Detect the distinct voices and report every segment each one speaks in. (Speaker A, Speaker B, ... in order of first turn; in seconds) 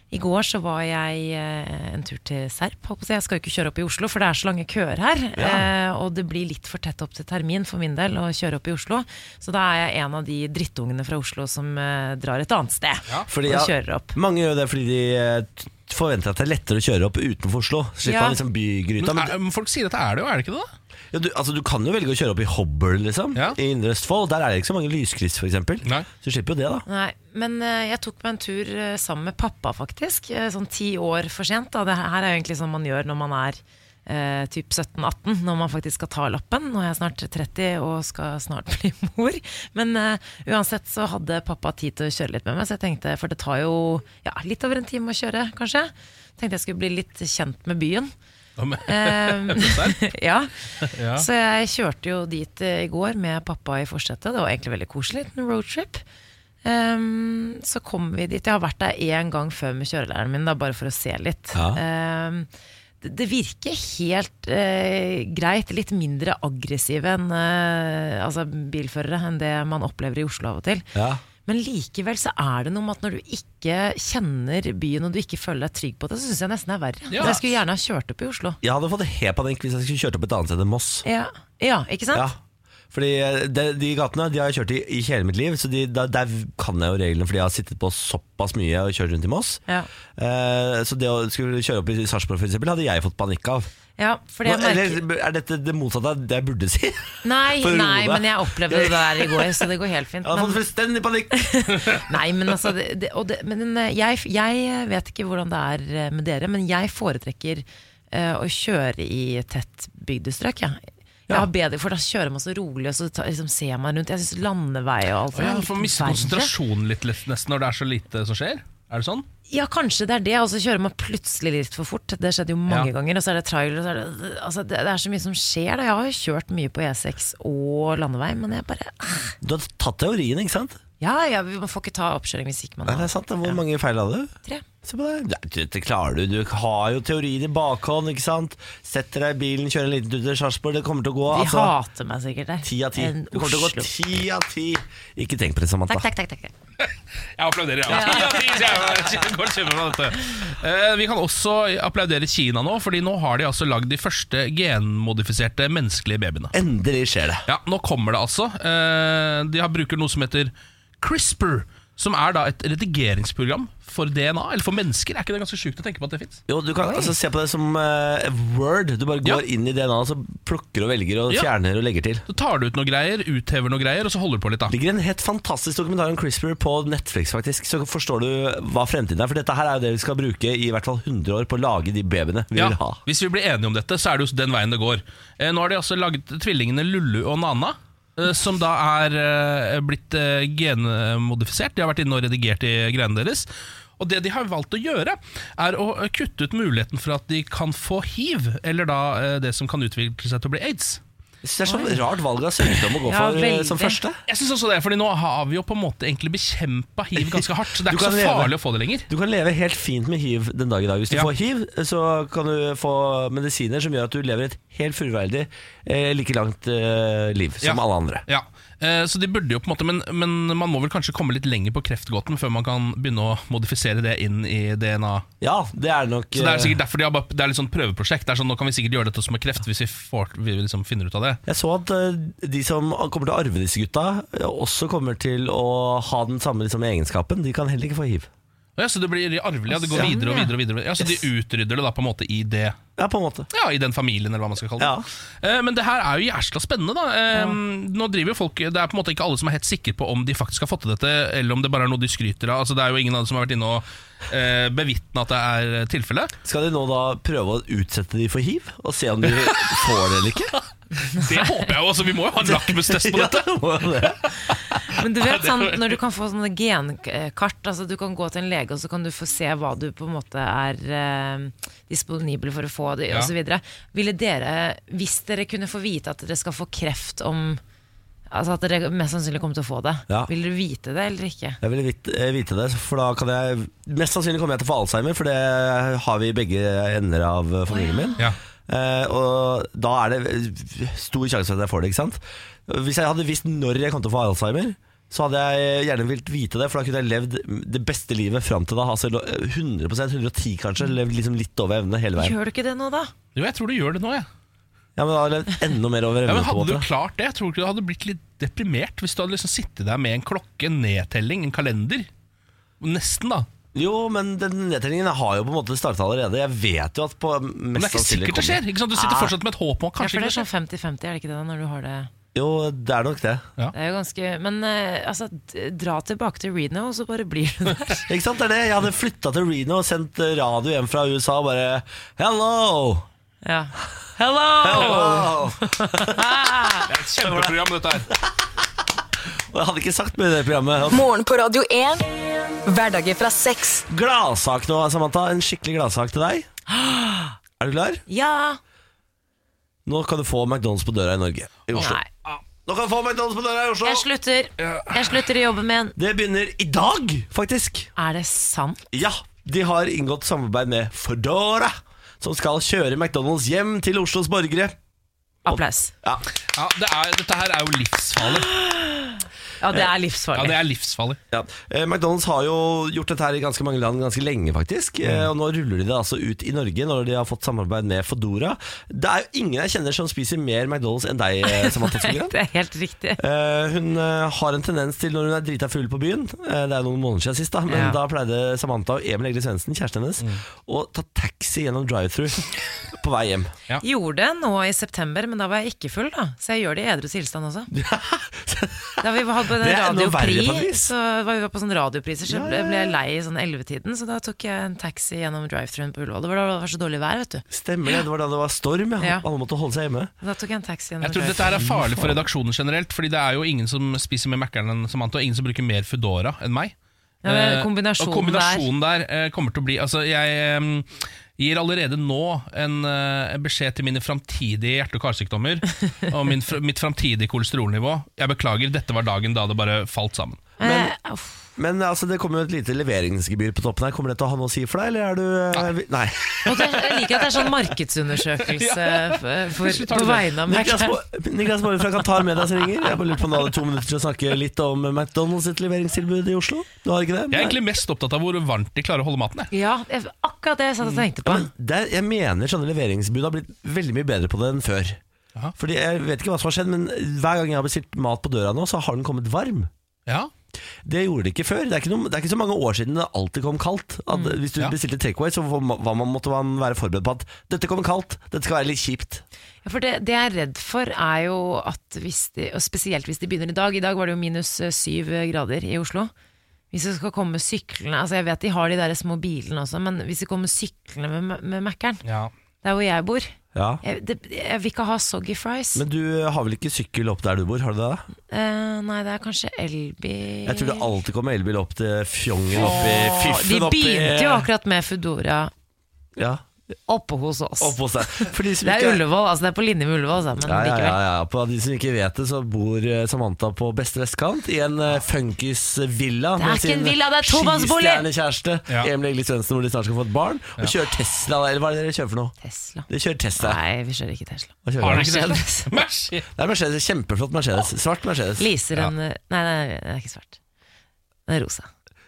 Speaker A: 0.1-14.1, 18.0-18.4, 26.9-48.1, 48.9-50.5, 51.1-56.0, 56.6-62.5, 63.0-70.9, 71.4-78.6, 81.0-82.3, 94.0-95.0, 97.2-100.6, 101.3-116.5, 119.5-129.3, 131.0-133.6, 141.3-143.9, 145.9-146.5, 147.9-148.6, 166.8-167.1, 201.7-202.0, 203.0-204.0, 239.7-240.5, 264.9-277.6, 278.3-281.6, 287.7-288.2, 302.2-303.1, 318.9-319.3, 320.0-322.1, 323.7-328.0, 333.4-336.9, 346.7-347.4, 348.1-348.6, 351.7-352.1, 353.8-355.9, 358.0-358.8, 365.4-365.9, 368.6-370.6, 381.5-383.2, 387.7-388.0, 393.8-397.7, 399.0-407.4, 410.2-412.0, 417.2-418.7, 430.6-431.4, 436.4-440.9, 449.5-451.5, 464.1-464.4, 469.6-476.1, 476.7-482.0, 482.6-485.8, 488.3-490.9, 492.5-495.5, 496.9-501.0, 506.4-508.0, 512.4-512.9, 513.4-515.7, 518.4-520.4, 521.3-521.7
Speaker B: 5.3-5.7, 13.3-19.3, 21.1-26.8, 61.5-61.8, 70.9-71.2, 77.2-77.5, 78.6-81.0, 82.9-89.6, 90.2-93.7, 94.4-99.6, 100.2-101.4, 129.4-130.8, 132.8-134.3, 134.8-141.7, 142.6-146.1, 156.5-157.4, 166.5-172.2, 174.7-183.0, 201.4-204.2, 207.2-208.5, 209.1-218.2, 225.4-226.8, 231.4-238.3, 239.9-240.2, 243.0-243.5, 244.8-245.1, 256.4-260.5, 262.4-264.5, 281.6-302.4, 304.9-306.9, 313.7-318.6, 322.3-323.5, 328.1-333.1, 334.6-337.5, 339.5-341.0, 343.9-346.5, 347.6-348.0, 349.9-352.0, 352.6-354.1, 355.9-357.9, 358.9-364.8, 365.5-366.2, 371.3-382.3, 383.2-393.5, 397.7-400.9, 402.3-402.9, 407.5-410.1, 430.6-430.9, 431.6-436.9, 440.4-447.6, 450.9-455.0, 455.6-459.7, 460.8-469.2, 483.5-483.8, 485.7-488.0, 490.4-494.5, 496.1-496.4, 497.6-499.0, 500.4-512.3, 512.9-513.6, 514.6-515.1, 516.4-518.5
Speaker C: 19.0-20.7, 48.6-50.0, 50.8-51.2, 77.1-77.4, 115.3-119.2, 146.8-156.5, 157.4-166.4, 172.3-174.7, 182.5-193.5, 194.0-201.0, 204.3-209.1, 217.6-225.2, 226.3-231.4, 238.8-242.8, 243.5-256.3, 259.4-259.8, 261.1-263.5, 265.2-266.0, 303.3-304.3, 306.2-312.1, 312.8-313.5, 317.8-320.5, 336.9-338.1, 366.5-368.5, 370.3-371.2, 411.0-416.7, 417.2-430.4, 438.5-440.3, 447.3-449.5, 482.0-482.3, 514.8-516.3
Speaker D: 340.9-342.0, 342.6-343.9